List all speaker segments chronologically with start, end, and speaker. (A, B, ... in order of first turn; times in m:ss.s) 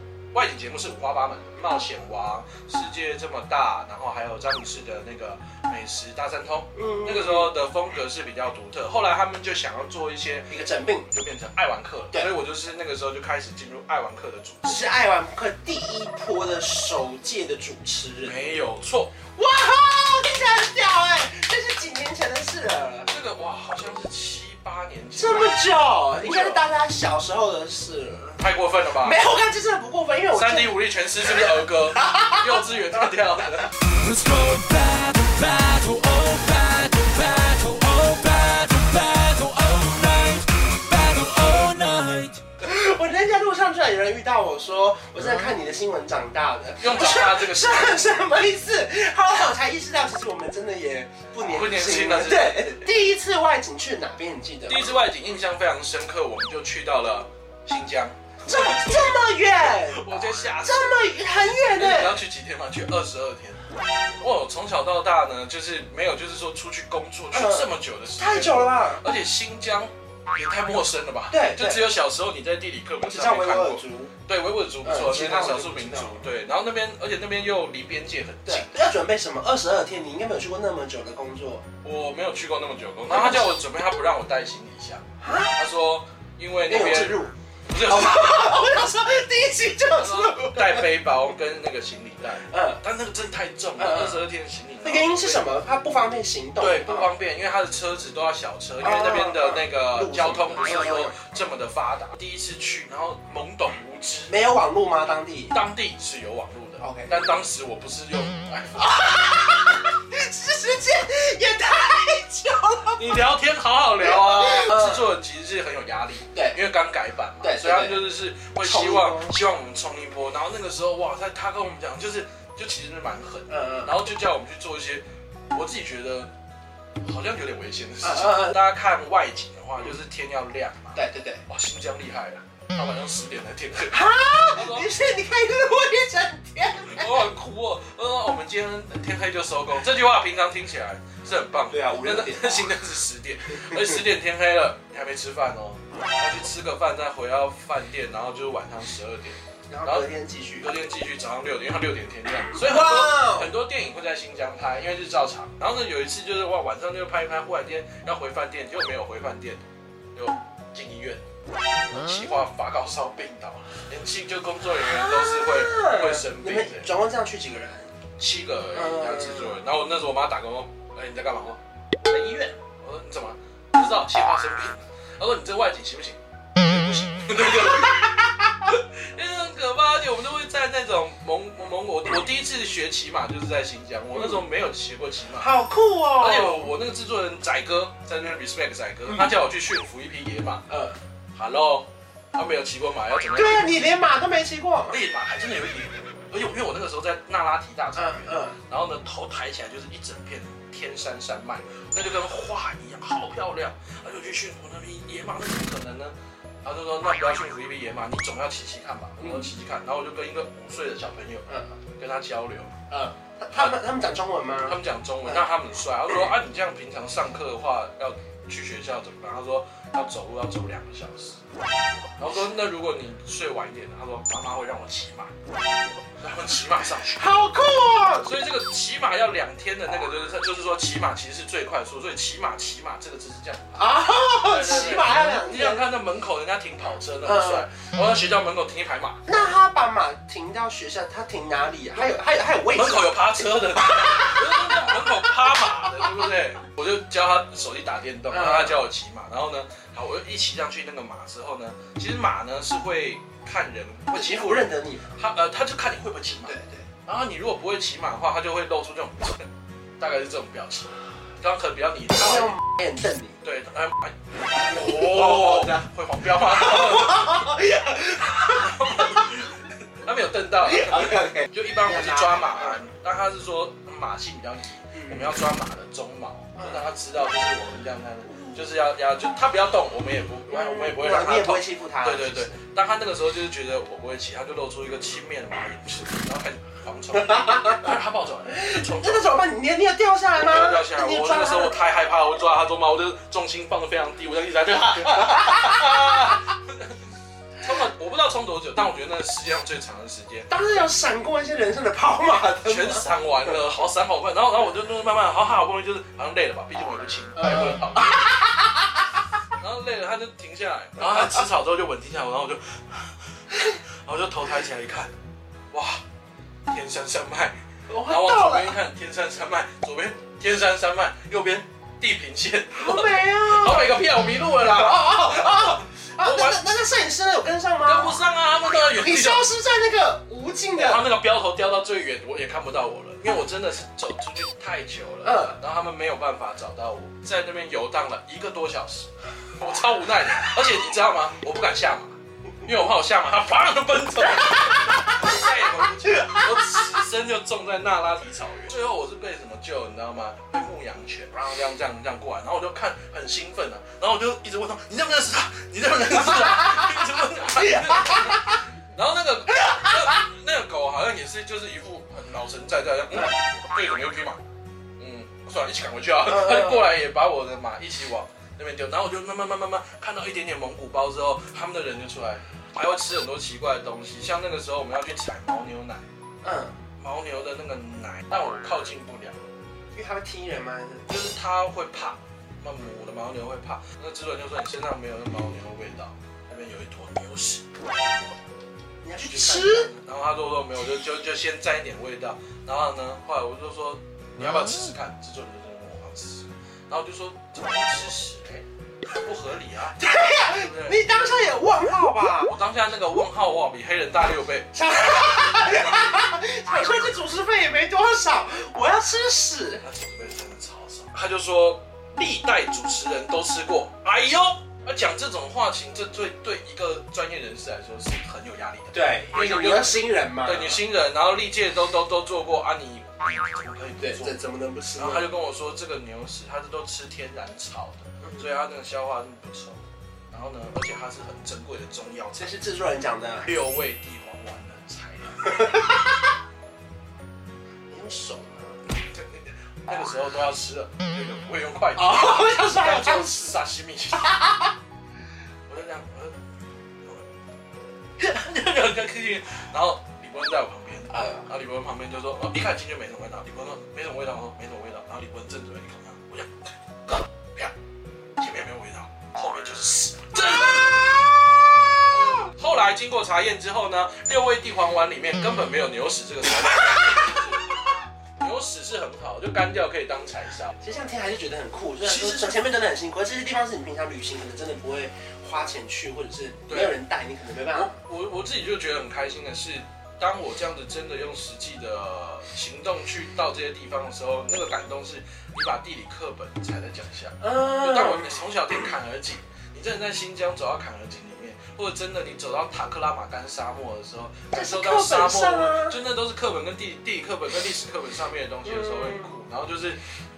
0:00.3-0:14.9 A
0:06.8-0:07.5 B
0:10.5-0:11.1 B
0:14.6-0:18.4 B
0:18.2-0:19.2 A
0:19.4-0:23.1 B
0:23.1-0:26.6 A
0:25.2-0:28.4 B
0:28.4-0:29.2 A
0:28.9-0:32.6 B
0:30.3-0:33.8 A
0:34.0-0:42.4 C
0:42.6-0:54.9 B
0:46.8-0:48.0 A
0:51.4-0:52.9 A
0:54.7-1:03.6 A
0:58.5-1:00.1 B
1:00.6-1:02.2 B
1:04.2-1:18.8 A
1:07.3-1:09.0 B
1:11.3-1:11.9 B
1:13.0-1:14.1 B
1:14.8-1:16.3 B
1:18.5-1:21.6 B
1:21.8-1:28.7 A
1:23.1-1:23.5 B
1:25.2-1:25.6 B
1:26.7-1:30.9 B
1:30.0-1:35.5 A
1:32.5-1:32.8 B
1:33.8-1:34.2 B
1:34.8-1:37.1 B
1:36.6-1:44.4 A
1:38.8-1:41.2 B
1:44.3-1:45.6 B
1:45.5-1:49.0 A
1:46.8-1:47.2 B
1:48.8-1:53.2 B
1:53.0-2:06.3 A
1:54.0-1:55.1 B
1:57.4-1:58.0 B
1:58.6-1:59.4 B
2:03.5-2:03.9 B
2:07.0-2:14.0 A
2:08.0-2:08.6 B
2:11.0-2:11.4 B
2:13.9-2:17.3 B
2:14.5-2:14.9 A
2:16.8-2:30.1 A
2:21.7-2:22.7 B
2:23.7-2:24.0 B
2:29.7-2:30.7 B
2:30.6-2:39.6 A
2:32.5-2:33.5 B
2:40.2-2:41.2 A
2:41.9-2:46.9 A
2:44.8-2:48.0 B
2:48.2-2:51.6 A
2:48.7-2:49.6 B
2:52.1-2:52.6 B
2:52.8-3:05.5 A
3:04.1-3:04.4 B
3:05.4-3:06.7 B
3:06.2-3:10.6 A
3:10.7-3:11.0 B
3:11.4-3:13.8 A
3:13.3-3:15.0 B
3:14.9-3:31.5 A
3:18.0-3:18.6 B
3:29.2-3:29.5 B
3:31.5-3:31.8 B
3:32.0-3:32.7 A
3:32.9-3:35.4 B
3:33.5-3:33.8 A
3:34.7-3:41.4 A
3:42.2-3:45.3 A
3:46.2-3:47.3 A
3:47.2-3:48.3 B
3:48.2-3:53.8 A
3:53.8-3:55.8 B
3:54.4-3:59.3 A
3:57.2-3:57.7 B
3:59.3-4:06.2 B
4:02.7-4:16.5 A
4:08.3-4:08.8 B
4:14.1-4:15.1 B
4:16.4-4:16.9 B
4:17.0-4:19.5 A
4:20.0-4:22.6 A
4:22.2-4:23.4 B
4:23.4-4:27.6 A
4:24.6-4:25.9 B
4:26.5-4:29.3 B
4:28.3-4:49.4 A
4:30.6-4:32.8 B
4:34.9-4:35.4 B
4:36.6-4:36.9 B
4:40.5-4:42.5 B
4:47.2-4:47.9 B
4:48.5-4:51.8 B
4:50.4-4:57.0 A
4:55.0-4:56.4 B
4:57.6-5:00.5 A
5:00.5-5:03.6 B
5:02.6-5:08.4 A
5:07.4-5:09.1 B
5:09.5-5:15.1 A
5:15.7-5:16.0 A
5:16.7-5:26.8 A
5:17.9-5:18.8 B
5:22.8-5:28.2 B
5:27.8-5:29.5 A
5:28.7-5:31.1 B
5:30.8-6:04.4 A
5:35.2-5:35.6 B
5:57.6-5:58.4 B
6:05.0-6:16.0 A
6:06.4-6:06.8 B
6:16.4-6:16.8 B
6:17.0-6:19.4 A
6:19.9-6:21.1 B
6:21.1-6:27.7 A
6:29.0-6:29.9 B
6:29.2-6:41.0 A
6:40.0-6:42.6 B
6:42.4-6:44.8 A
6:44.7-6:49.8 B
6:49.8-7:04.4 A
6:58.9-7:00.8 B
7:04.0-7:05.3 B
7:05.0-7:12.6 A
7:12.4-7:13.5 B
7:13.4-7:15.8 A
7:15.4-7:16.2 B
7:17.9-7:18.8 B
7:18.9-7:24.4 A
7:22.0-7:23.5 B
7:24.2-7:24.7 B
7:25.7-7:26.4 A
7:28.2-7:36.5 A
7:31.1-7:31.4 B
7:37.1-7:37.7 A
7:38.4-7:41.5 A
7:42.0-7:47.8 A
7:48.4-7:50.8 A
7:50.8-7:58.0 B
7:52.0-7:52.6 A
7:56.7-7:57.0 A
7:57.7-8:20.0 A
8:07.4-8:08.5 B
8:14.5-8:16.0 B
8:18.6-8:19.4 B